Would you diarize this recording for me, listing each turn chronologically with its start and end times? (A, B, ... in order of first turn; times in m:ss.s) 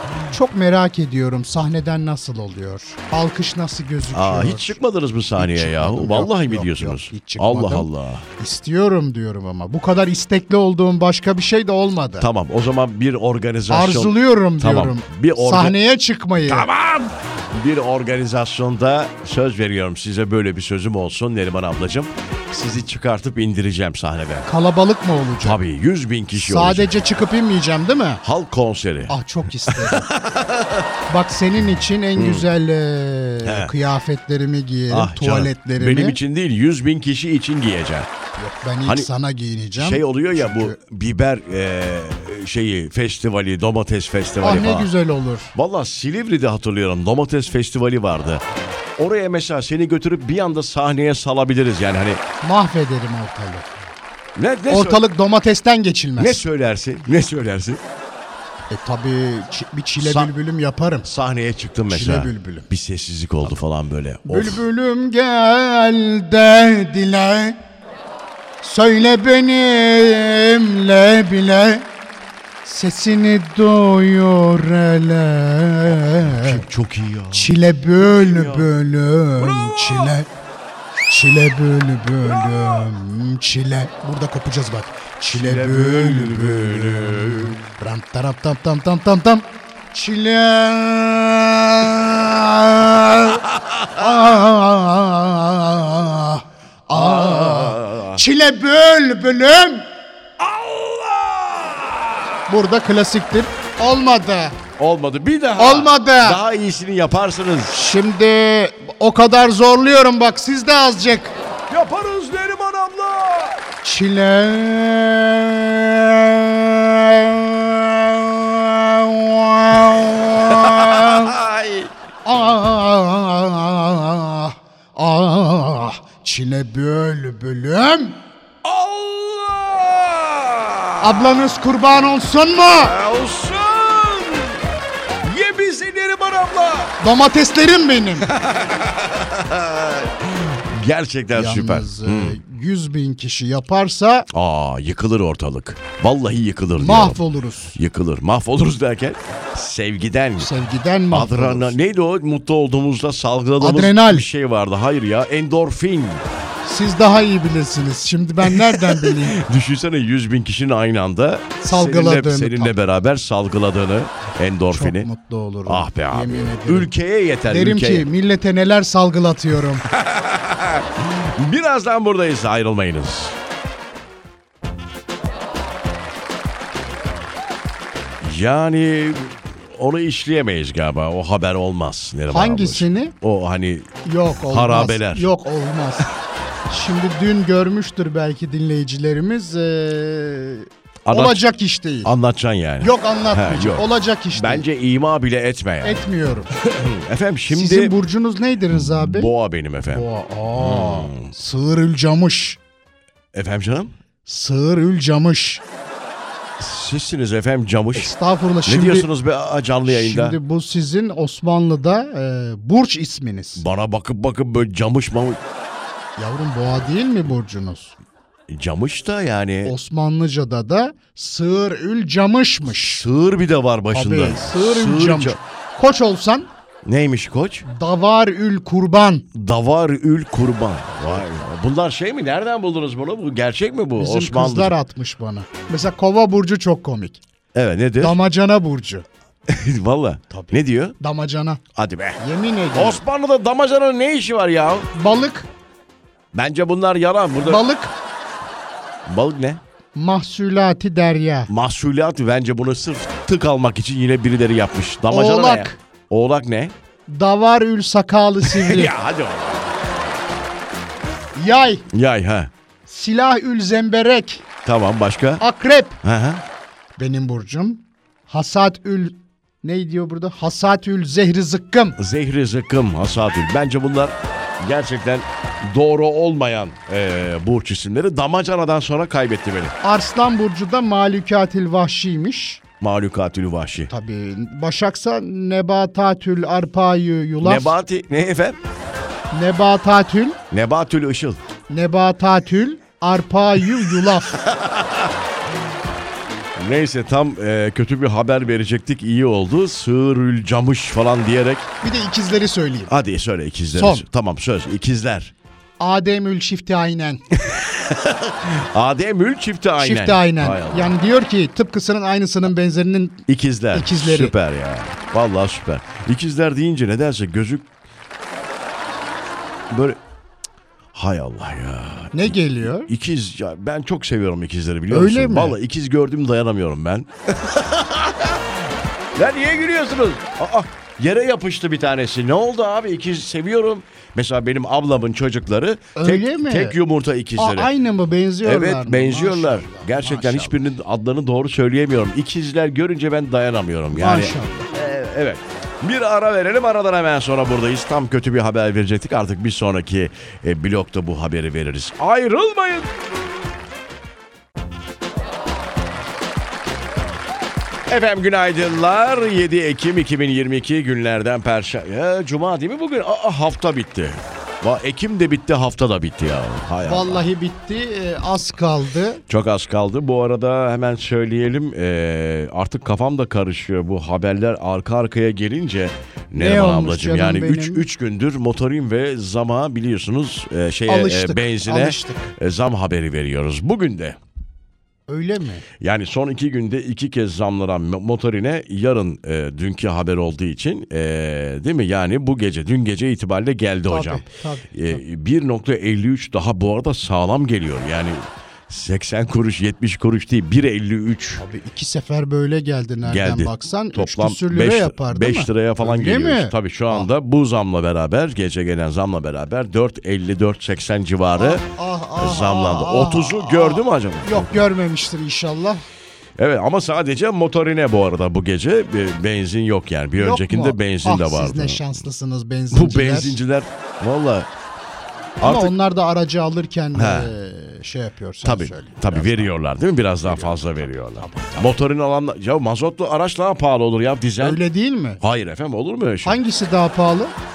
0:00.3-0:04.8 A
0:04.1-0:08.2 B
0:05.4-0:12.3 A
0:12.2-0:15.8 B
0:13.7-0:16.7 A
0:16.4-0:24.5 B
0:24.4-0:25.6 A
0:25.4-0:26.9 B
0:26.4-0:28.2 A
0:28.2-0:30.9 B
0:29.1-0:30.1 A
0:31.1-0:36.2 A
0:32.2-0:32.5 B
0:33.4-0:33.7 B
0:34.9-0:38.1 B
0:38.4-0:40.8 A
0:39.7-0:44.9 B
0:44.4-0:45.5 A
0:45.5-0:48.4 B
0:49.0-0:52.2 B
0:52.4-0:53.7 A
0:54.4-0:55.0 B
0:54.7-0:56.4 A
0:56.2-0:57.8 B
0:58.7-1:01.1 A
1:00.0-1:00.3 B
1:01.0-1:04.6 B
1:01.9-1:02.7 A
1:04.2-1:07.6 A
1:08.6-1:11.9 A
1:12.6-1:16.6 A
1:16.0-1:18.7 B
1:17.3-1:20.3 A
1:19.4-1:20.1 B
1:21.1-1:39.8 A
1:25.3-1:27.6 B
1:36.9-1:38.2 B
1:40.4-1:42.3 B
1:42.5-1:44.6 A
1:44.8-1:47.7 B
1:45.6-1:46.4 A
1:47.7-1:51.3 A
1:51.7-1:53.6 B
1:53.8-2:01.4 A
2:00.1-2:01.9 B
2:02.2-2:08.2 A
2:08.6-2:11.4 B
2:11.0-2:12.9 A
2:12.8-2:14.6 B
2:15.2-2:17.0 B
2:17.0-2:18.3 A
2:18.2-2:22.4 B
2:21.3-2:24.3 A
2:24.3-2:27.2 B
2:26.8-2:27.8 A
2:27.7-2:30.5 B
2:30.4-2:31.8 A
2:31.1-2:36.2 B
2:33.6-2:34.3 A
2:36.6-2:39.4 A
2:38.5-2:45.1 B
2:41.6-2:42.7 A
2:44.7-2:46.9 A
2:45.6-2:48.1 B
2:47.5-2:49.8 A
2:49.8-2:53.4 B
2:58.2-3:05.3 B
3:02.3-3:03.1 A
3:04.0-3:06.1 A
3:06.7-3:12.1 A
3:11.0-3:11.4 B
3:12.0-3:17.9 B
3:12.8-3:14.6 A
3:15.8-3:16.5 A
3:17.5-3:19.3 A
3:18.7-3:20.0 B
3:19.9-3:22.6 A
3:20.6-3:21.3 B
3:23.3-3:23.9 B
3:24.2-3:25.6 A
3:26.6-3:28.1 B
3:27.9-3:29.1 A
3:28.6-3:30.4 B
3:29.8-3:33.6 A
3:33.6-3:35.4 B
3:36.2-3:38.0 A
3:38.5-3:39.7 B
3:39.6-3:43.0 A
3:42.7-3:45.4 B
3:43.9-3:46.5 A
3:46.8-3:47.6 B
3:47.6-3:49.2 A
3:49.3-3:54.7 B
3:54.0-3:57.2 A
3:57.5-3:58.2 B
3:58.0-3:59.0 A
3:59.5-4:01.0 B
4:00.3-4:01.6 A
4:01.7-4:02.2 B
4:02.2-4:03.0 A
4:02.7-4:04.9 B
4:04.9-4:05.5 A
4:06.3-4:07.6 B
4:07.4-4:07.9 A
4:09.0-4:09.6 B
4:09.9-4:11.5 A
4:11.5-4:16.7 B
4:15.1-4:15.8 A
4:17.1-4:18.9 A
4:18.4-4:19.8 B
4:21.4-4:21.8 A
4:21.9-4:22.5 B
4:22.9-4:24.4 A
4:24.6-4:25.4 B
4:25.4-4:26.0 A
4:26.0-4:26.4 B
4:27.0-4:32.0 A
4:32.0-4:39.7 B
4:39.8-4:42.6 A
4:42.8-4:43.9 B
4:43.9-4:47.8 A
4:47.4-4:48.6 B
4:49.3-4:50.4 A
4:50.5-4:51.4 B
4:51.7-4:54.4 A
4:53.7-4:55.1 B
4:56.6-5:01.7 B
5:01.8-5:02.9 A
5:02.9-5:05.3 B
5:03.7-5:04.0 A
5:05.8-5:07.2 A
5:07.3-5:11.0 B
5:09.8-5:14.3 A
5:13.3-5:17.7 B
5:19.7-5:20.0 B
5:20.9-5:28.5 B
5:22.1-5:22.9 A
5:24.9-5:25.6 A
5:29.1-5:37.7 B
5:35.9-5:36.8 A
5:37.4-5:40.6 A
5:38.4-5:52.9 B
5:43.9-5:44.6 A
5:57.9-6:07.2 B
6:06.8-6:09.2 A
6:09.3-6:24.2 B
6:16.4-6:17.8 A
6:20.9-6:22.3 A
6:25.1-6:25.6 A
6:25.8-6:41.4 B
6:33.9-6:35.0 A
6:41.4-6:47.1 A
6:43.0-6:51.7 B
6:51.4-6:55.8 A
6:52.2-6:54.7 B
6:56.4-7:02.0 B
7:00.2-7:03.4 A
7:02.7-7:04.5 B
7:05.4-7:05.7 B
7:05.4-7:09.5 A
7:06.9-7:07.3 B
7:08.4-7:14.6 B
7:10.2-7:10.6 A
7:11.2-7:11.8 A
7:14.4-7:15.2 A
7:15.2-7:16.4 B
7:16.2-7:17.3 A